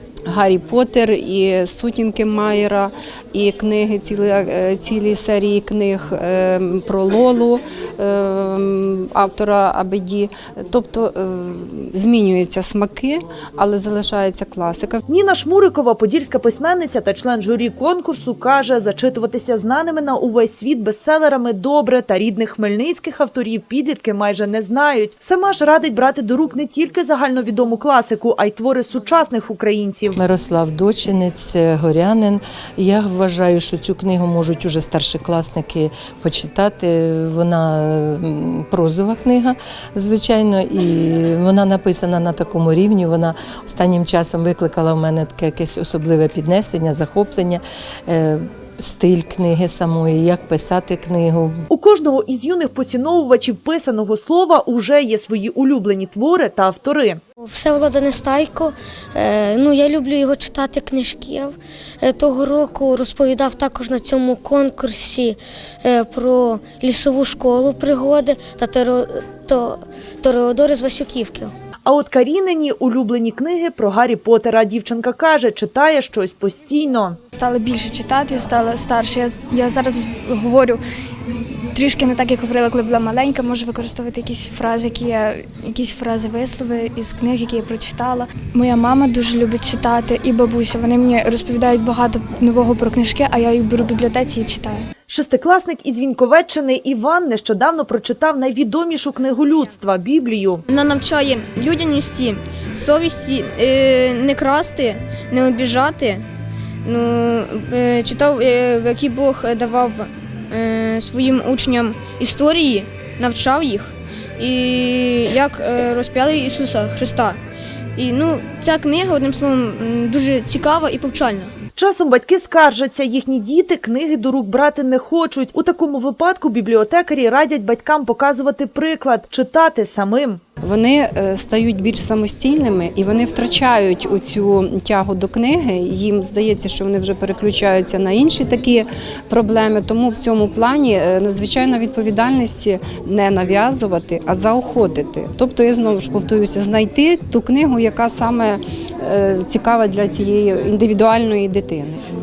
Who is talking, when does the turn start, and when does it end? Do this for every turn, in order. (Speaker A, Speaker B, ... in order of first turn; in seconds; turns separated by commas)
Speaker A: 0.3-15.0, Speaker B: 15.1-30.2, Speaker C: 30.1-51.6, Speaker B: 51.7-57.2, Speaker D: 57.4-71.5, Speaker B: 71.8-77.2, Speaker E: 77.3-80.8, Speaker E: 81.7-94.8, Speaker B: 95.1-100.6, Speaker F: 100.7-106.2, Speaker F: 106.8-117.4, Speaker F: 118.0-121.5, Speaker B: 121.8-130.4, Speaker A: 130.6-152.0